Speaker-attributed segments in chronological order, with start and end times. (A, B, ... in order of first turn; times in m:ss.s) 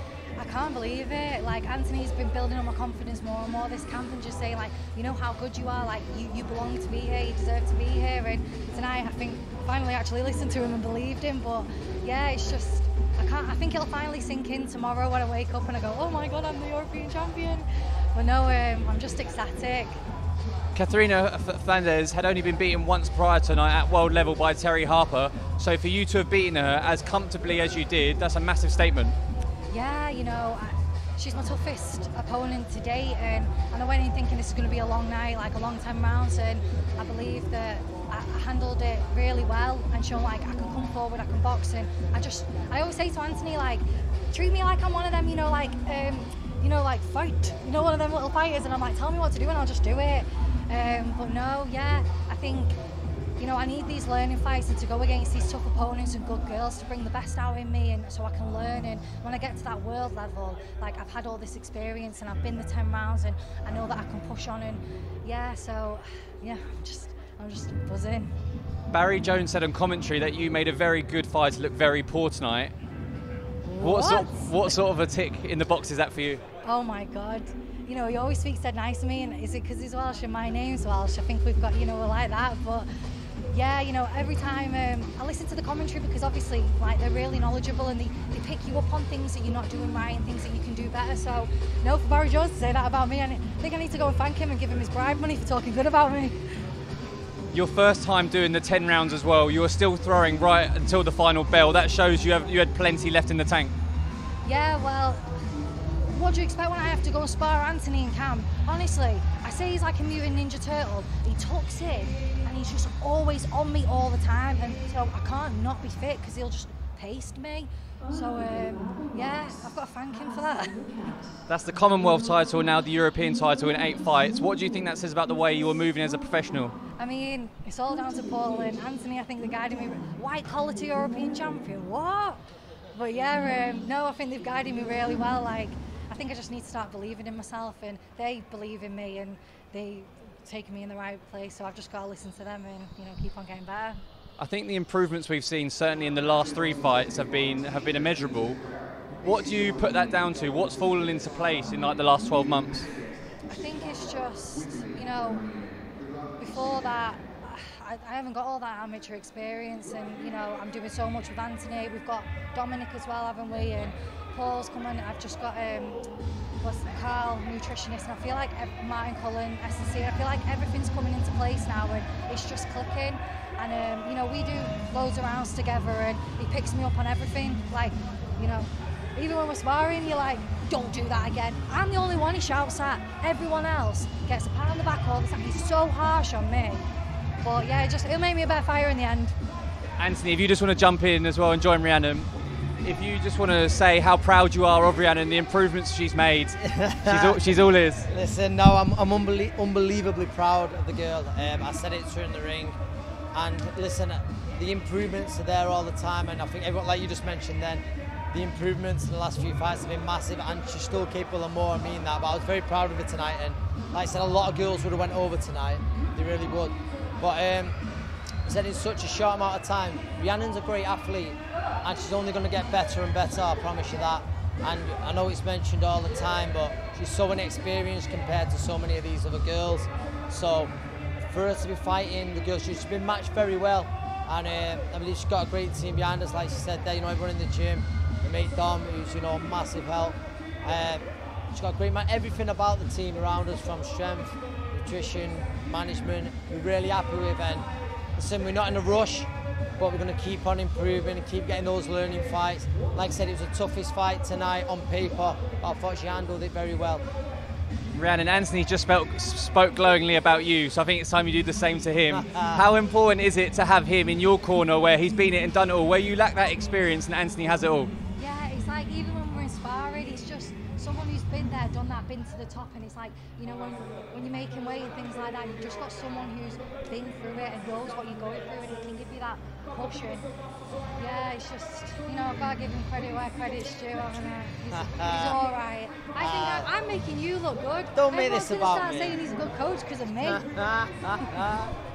0:00.4-0:20.0 A
0:20.7-0:29.2 B
0:29.7-0:52.8 A
0:53.4-1:08.3 A
1:08.9-1:12.7 B
1:13.6-1:14.7 A
1:13.8-1:16.4 B
1:16.6-1:22.9 A
1:23.5-1:36.4 A
1:37.5-1:43.8 B
1:44.4-1:45.3 A
1:46.0-2:00.9 A
2:01.5-2:06.7 B
2:07.0-2:12.4 A
2:12.9-2:24.0 A
2:24.4-2:28.6 B
2:29.2-2:32.9 B
2:33.4-2:35.4 A
2:36.4-2:46.0 A
2:46.6-3:06.8 A
3:07.4-3:09.3 A
3:10.0-3:12.3 B
3:12.8-3:18.1 B
3:16.6-3:17.4 C
3:18.1-3:22.8 C
3:23.3-3:37.8 C
3:38.4-3:50.7 C
3:51.3-4:17.0 C
4:17.9-4:27.9 B
4:22.1-4:22.6 C
4:28.2-4:40.2 A
4:41.0-4:50.4 A
4:44.7-4:45.4 C
4:46.2-4:46.7 C
4:47.9-4:49.2 C
4:50.2-4:51.7 C